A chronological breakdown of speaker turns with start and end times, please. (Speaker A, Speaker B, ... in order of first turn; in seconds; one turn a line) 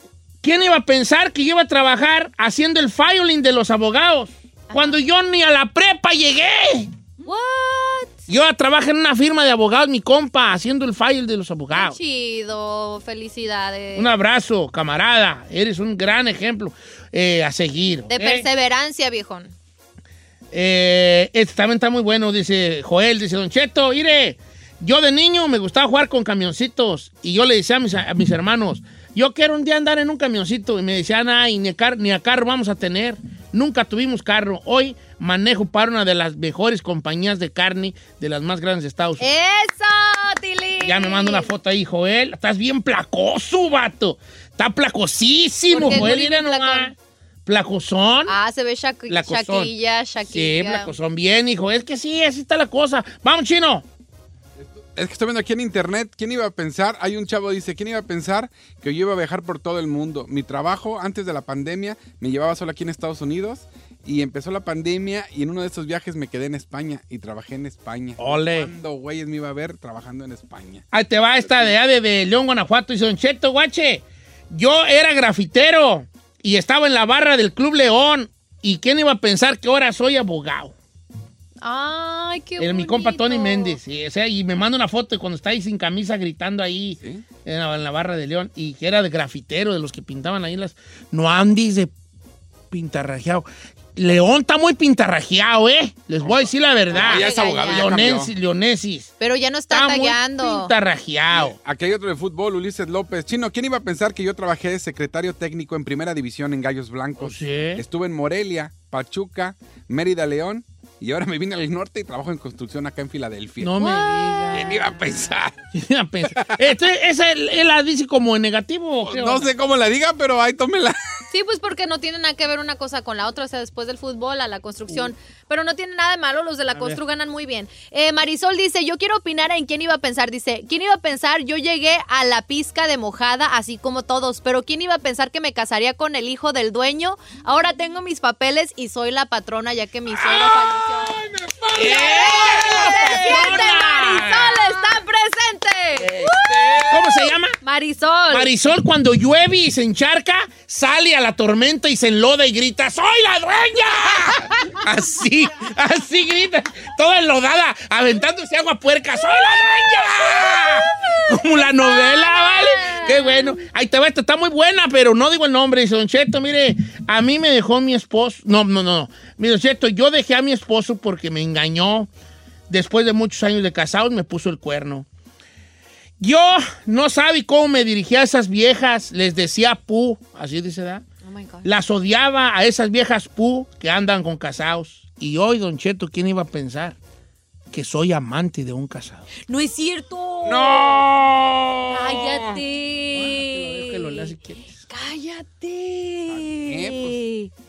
Speaker A: 0.4-6.9
Speaker B: 4.7-5.0
Speaker B: 7.2-8.2
Speaker A: 8.3-12.0
Speaker B: 11.7-14.2
Speaker A: 13.9-18.5
Speaker B: 18.1-19.5
Speaker A: 20.5-39.3
Speaker B: 39.2-41.5
Speaker A: 40.8-46.9
Speaker B: 45.7-46.9
Speaker A: 47.5-48.4
Speaker B: 48.3-50.9
Speaker A: 49.1-49.7
Speaker A: 50.2-53.9
Speaker C: 54.6-70.8
Speaker A: 68.2-68.7
Speaker A: 70.9-80.7
Speaker C: 71.4-71.8
Speaker B: 81.6-83.8
Speaker A: 82.6-91.9
Speaker A: 92.7-99.1
Speaker C: 96.3-98.3
Speaker B: 97.0-98.1
Speaker B: 99.2-100.7
Speaker A: 99.7-101.6
Speaker C: 101.3-113.8
Speaker A: 107.2-107.8
Speaker A: 113.6-114.8
Speaker B: 113.8-114.8
Speaker C: 114.5-115.5
Speaker A: 115.8-119.5
Speaker C: 119.0-121.0
Speaker B: 121.3-141.2
Speaker A: 126.7-127.0
Speaker C: 140.1-143.3
Speaker A: 141.8-144.6
Speaker B: 141.8-148.5
Speaker A: 146.0-146.3
Speaker C: 146.4-147.1
Speaker A: 146.9-147.6
Speaker A: 148.3-172.1
Speaker B: 160.4-163.6
Speaker A: 172.7-175.1
Speaker A: 176.2-181.1
Speaker B: 181.2-181.7
Speaker A: 181.6-187.0
Speaker A: 187.7-189.3
Speaker B: 189.4-191.1
Speaker C: 190.4-192.5
Speaker B: 191.9-194.3
Speaker A: 193.1-194.8
Speaker B: 194.9-197.5
Speaker C: 196.3-197.2